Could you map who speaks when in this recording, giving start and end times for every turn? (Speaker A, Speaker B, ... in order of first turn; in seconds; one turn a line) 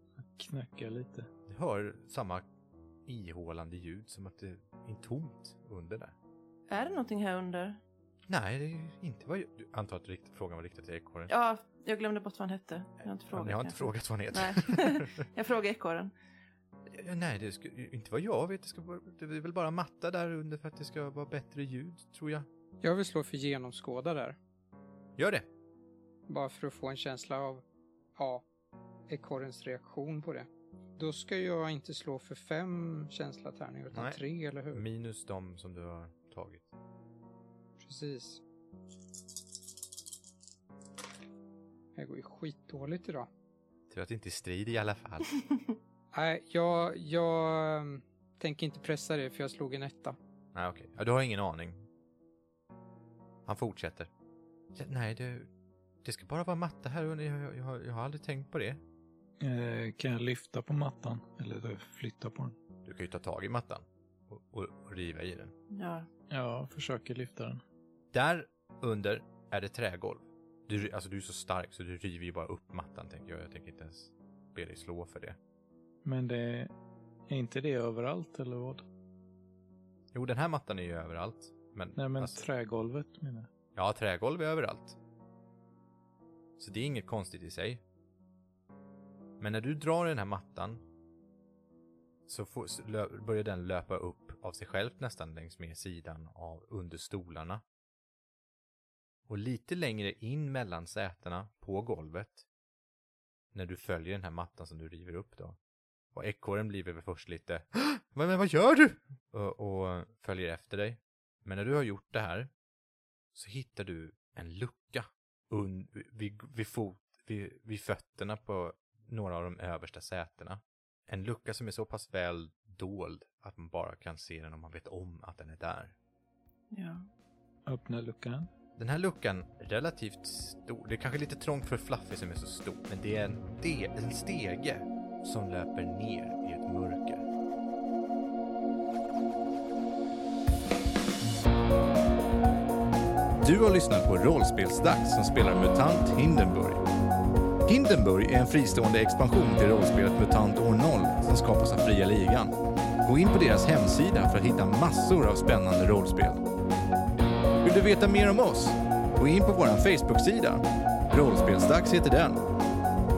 Speaker A: 0.3-1.3
Speaker B: 1.5-2.5
Speaker B: 3.1-6.1
Speaker C: 6.7-7.8
Speaker B: 8.3-11.3
Speaker C: 11.3-16.1
Speaker B: 13.3-15.2
Speaker B: 16.9-22.5
Speaker D: 22.8-24.4
Speaker B: 25.2-25.5
Speaker D: 26.3-27.6
Speaker D: 28.2-28.5
Speaker D: 29.1-34.9
Speaker B: 33.9-34.2
Speaker B: 34.7-36.7
Speaker D: 37.8-38.4
Speaker D: 42.0-43.3
Speaker B: 43.9-45.3
Speaker D: 46.1-50.2
Speaker B: 50.5-51.9
Speaker B: 53.5-54.1
Speaker B: 54.7-55.5
Speaker B: 56.0-58.8
Speaker A: 59.4-62.5
Speaker B: 62.9-65.5
Speaker C: 65.7-66.1
Speaker A: 66.3-67.6
Speaker B: 68.1-75.4
Speaker A: 76.0-76.7
Speaker A: 77.3-78.8
Speaker B: 80.1-82.4
Speaker A: 82.0-83.5
Speaker B: 83.8-85.0
Speaker B: 86.6-87.8
Speaker B: 89.4-90.8
Speaker B: 92.3-97.6
Speaker B: 99.3-102.4
Speaker B: 103.5-105.6
Speaker B: 106.1-112.5
Speaker B: 113.3-126.0
Speaker C: 126.7-127.1
Speaker A: 127.7-128.5
Speaker B: 128.8-137.3
Speaker B: 143.4-146.8
Speaker B: 147.7-156.4
Speaker B: 157.6-162.4